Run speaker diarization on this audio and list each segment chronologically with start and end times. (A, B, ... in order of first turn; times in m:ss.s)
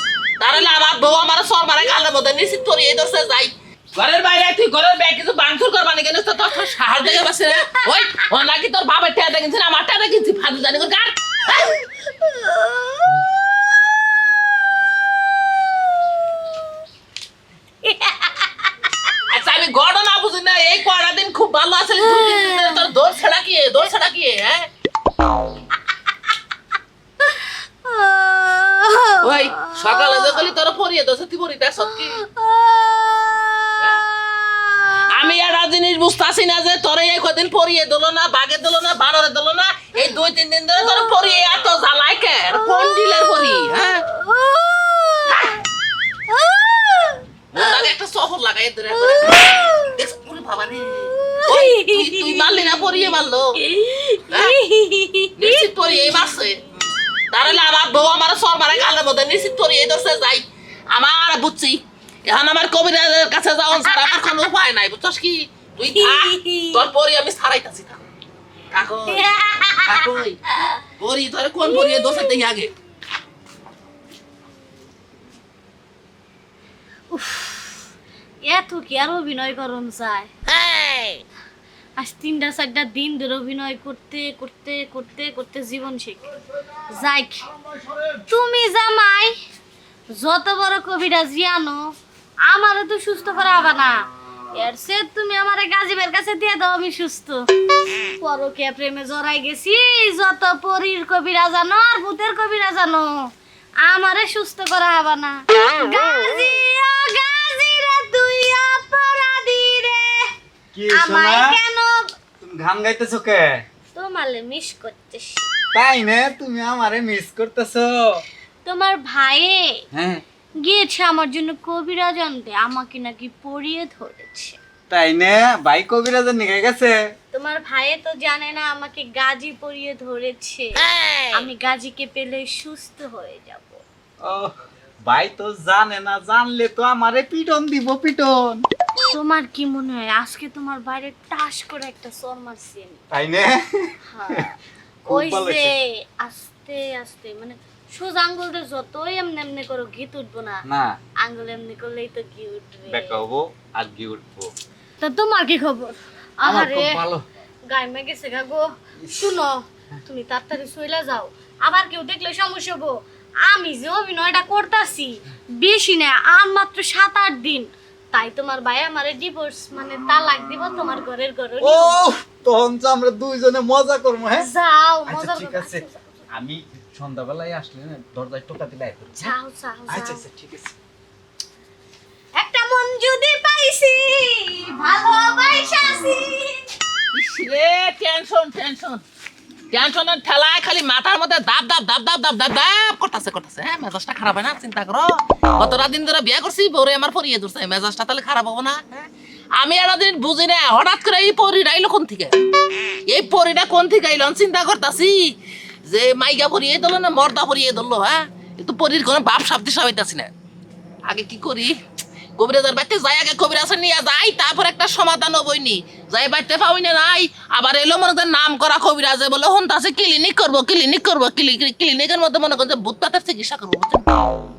0:00.4-0:11.8 A
0:11.6-0:13.3 B
0:15.6-0:16.7 B
0:17.8-0:18.7 B
0:19.3-0:24.7 A
0:22.0-0:23.0 B
0:27.2-0:30.4 B
0:29.2-0:32.2 A
0:31.9-0:35.4 B
0:33.8-0:34.0 A
0:35.0-0:44.0 A
0:40.8-0:41.3 B
0:42.5-0:45.6 B
0:45.3-0:45.6 A
0:46.3-0:47.9 B
0:47.5-0:53.6 A
0:48.9-0:50.0 B
0:51.1-0:56.4 B
0:55.4-0:56.6 A
0:57.3-1:08.0 A
1:03.8-1:04.4 B
1:05.9-1:06.8 B
1:08.7-1:09.2 A
1:09.1-1:10.8 B
1:09.8-1:10.4 A
1:11.0-1:12.7 A
1:11.6-1:12.4 B
1:17.1-1:17.8 B
1:18.4-1:20.3 B
1:22.0-1:26.3 B
1:26.9-1:27.5 B
1:28.3-1:29.3 B
1:30.2-1:31.8 B
1:32.5-1:37.4 B
1:38.2-1:43.1 B
1:43.8-1:50.3 B
1:50.7-1:51.5 C
1:50.9-1:52.1 B
1:52.4-1:53.6 C
1:53.9-1:55.5 B
1:55.7-1:58.2 C
1:58.6-1:59.8 B
1:59.9-2:00.2 C
2:00.6-2:04.6 B
2:04.9-2:07.0 C
2:07.3-2:13.8 B
2:14.2-2:18.6 C
2:19.1-2:23.0 B
2:23.1-2:24.4 C
2:24.1-2:30.6 B
2:25.0-2:25.7 C
2:30.6-2:31.0 C
2:31.2-2:33.2 B
2:32.9-2:34.5 C
2:35.0-2:37.0 B
2:36.4-2:37.2 C
2:37.7-2:52.1 B
2:39.0-2:39.4 C
2:51.6-2:54.5 C
2:54.4-2:56.0 B
2:55.1-2:59.3 C
2:59.2-3:00.2 B
2:59.9-3:00.7 C
3:02.4-3:06.6 B
3:07.1-3:09.0 A
3:09.7-3:22.4 A
3:23.0-3:30.3 A
3:31.0-3:31.8 A
3:32.4-3:44.3 A